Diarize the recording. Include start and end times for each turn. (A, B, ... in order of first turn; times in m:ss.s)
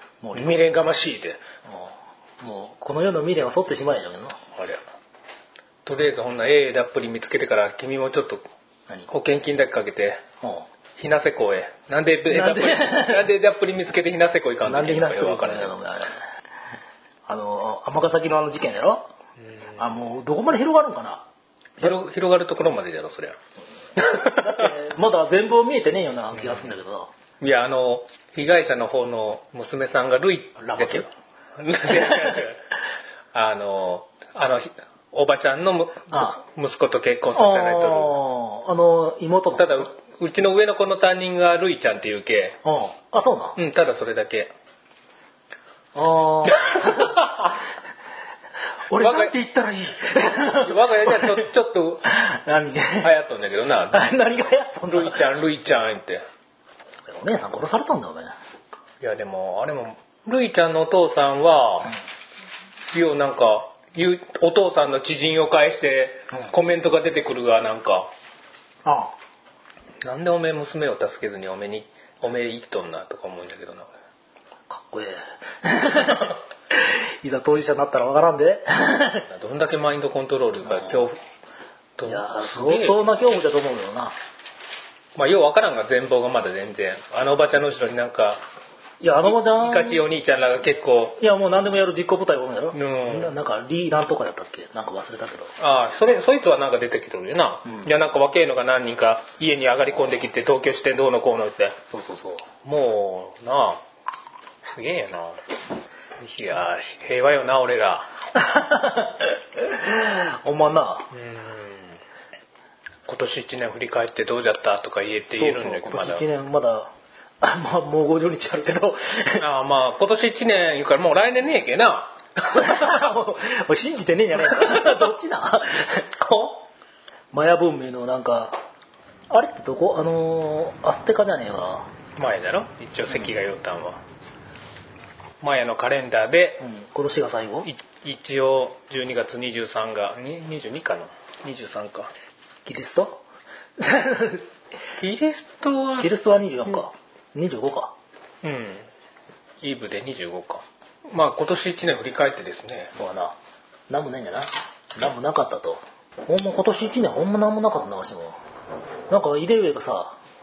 0:00.2-0:00.6 A
0:00.3-0:01.4 B
0:01.6-0:04.4 A
0:04.5-0:04.8 B
0:05.8-0:08.4 B
0:09.1-0:10.2 B
0:10.4-0:10.7 A
0:11.0-0:15.8 B
0:12.3-0:13.3 A
0:14.6-0:16.2 A
0:17.3-0:19.1 A
0:19.8-0:21.3 A
0:21.8-0:23.4 B
0:24.0-0:24.7 B
0:24.0-0:27.1 A
0:26.3-0:26.7 B
0:27.4-0:32.6 B
0:30.6-0:31.1 A
0:33.3-0:38.2 B
0:36.1-0:36.4 A
0:37.3-0:39.9 A
0:39.6-0:42.6 B
0:42.6-0:43.6 A
0:43.6-0:44.5 B
0:46.0-0:47.4 A
0:46.8-0:47.5 B
0:48.9-0:51.4 A
0:48.9-0:49.4 B
0:50.2-0:52.2 B
0:52.1-0:53.1 A
0:53.0-0:54.2 B
0:53.9-0:55.3 A
0:54.9-0:56.3 B
0:57.1-0:58.4 A
0:59.0-1:02.0 B
1:02.9-1:08.1 B
1:08.8-1:09.1 A
1:10.0-1:13.9 B
1:14.7-1:19.3 A
1:19.3-1:21.2 B
1:20.6-1:21.1 A
1:22.0-1:23.0 B
1:22.0-1:24.2 A
1:25.2-1:28.4 B
1:29.0-1:30.1 A
1:29.2-1:31.2 B
1:31.2-1:35.5 A
1:32.7-1:33.3 B
1:35.6-1:41.8 B
1:37.6-1:37.9 A
1:41.9-1:42.5 A
1:42.6-1:43.8 B
1:44.7-1:45.4 B
1:46.2-1:48.1 B
1:48.4-1:51.1 A
1:51.1-1:52.0 B
1:53.1-1:56.2 B
1:55.4-1:59.4 A
1:59.4-2:02.9 B
2:02.5-2:06.2 A
2:04.6-2:05.0 B
2:06.2-2:06.5 B
2:07.3-2:08.6 A
2:09.3-2:11.9 A
2:12.2-2:14.0 B
2:15.4-2:16.6 B
2:16.6-2:17.7 A
2:17.6-2:22.1 B
2:22.7-2:23.2 A
2:23.8-2:24.5 A
2:25.0-2:26.1 B
2:26.0-2:27.9 A
2:28.4-2:28.9 B
2:29.6-2:32.9 B
2:33.0-2:33.4 A
2:33.9-2:38.4 A
2:39.1-2:40.2 A